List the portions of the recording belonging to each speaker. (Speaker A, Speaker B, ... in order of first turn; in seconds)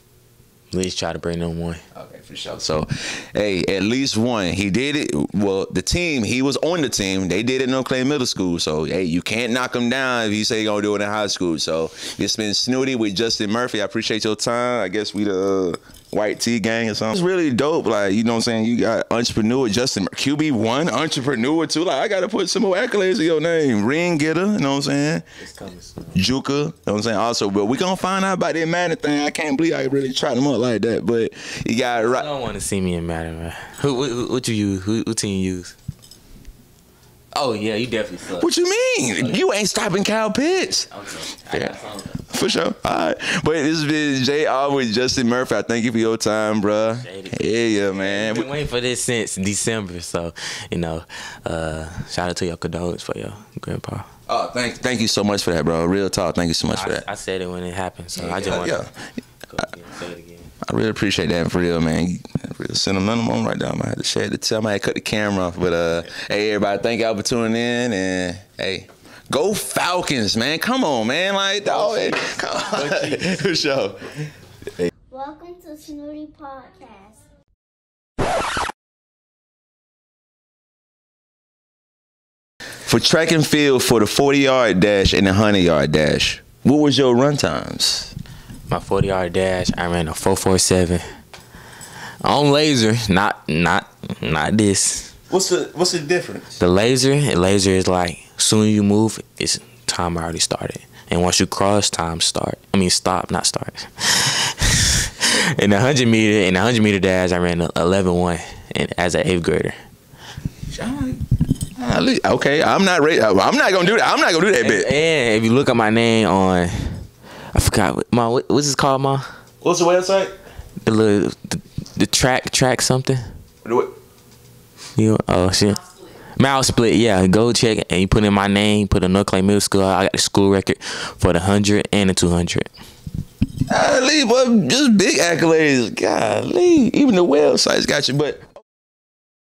Speaker A: 0.7-1.8, 25.4-26.2, 32.0-35.7, 37.3-38.5, 40.9-42.6, 47.0-54.1, 56.7-58.8, 59.5-60.5, 71.6-73.4, 88.7-91.0, 92.2-95.1, 96.6-109.8, 114.6-119.2, 120.8-123.2, 125.0-125.8, 126.4-132.7
Speaker B: 1.9-25.2, 26.1-32.3, 38.4-40.9, 41.5-41.8, 42.3-48.5, 54.3-57.0, 58.2-58.9, 60.6-74.2, 82.8-88.1, 95.3-96.5, 110.7-111.2, 111.8-114.9, 119.6-120.3, 123.6-123.9, 133.7-138.4
Speaker C: 75.1-77.2